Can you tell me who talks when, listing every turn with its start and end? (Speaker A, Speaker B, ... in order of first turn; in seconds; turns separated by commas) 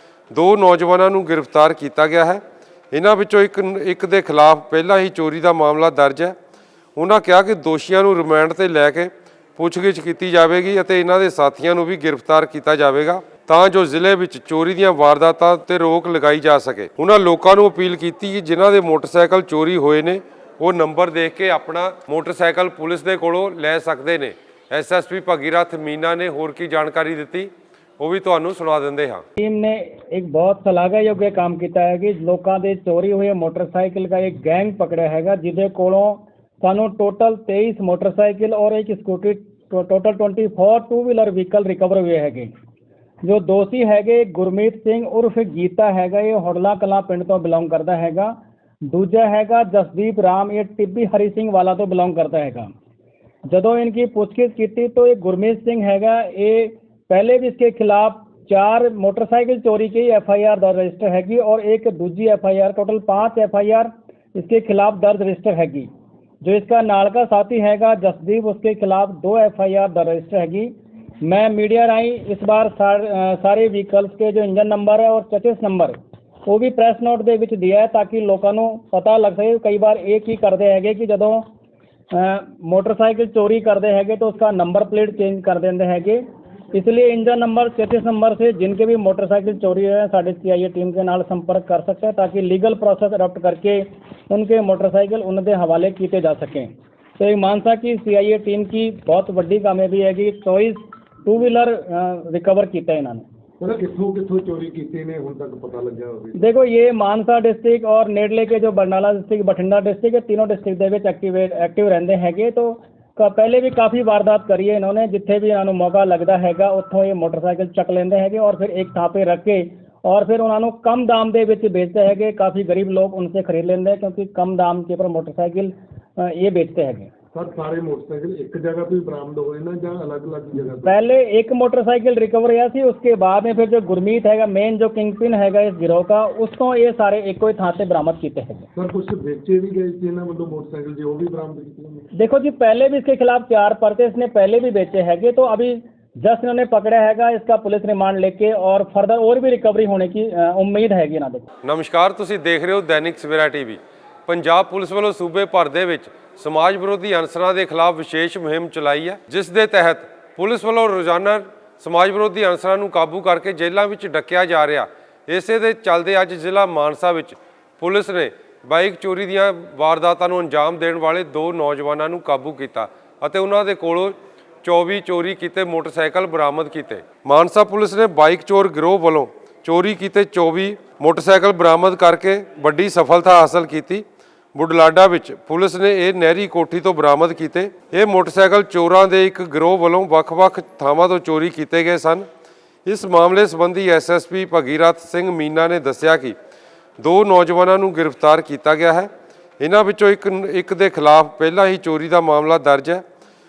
Speaker A: 0.3-6.4, Speaker A: 7.0-29.2, Speaker B: 29.4-42.5, Speaker B: 43.2-52.7, Speaker B: 53.5-65.9, Speaker B: 66.4-81.5, Speaker B: 82.1-103.2, Speaker C: 103.6-106.4, Speaker B: 106.4-127.1, Speaker C: 127.3-131.0, Speaker B: 130.8-138.7, Speaker C: 138.8-142.1, Speaker B: 142.2-151.5, Speaker A: 151.6-192.3, Speaker A: 192.9-196.4, Speaker A: 197.0-203.0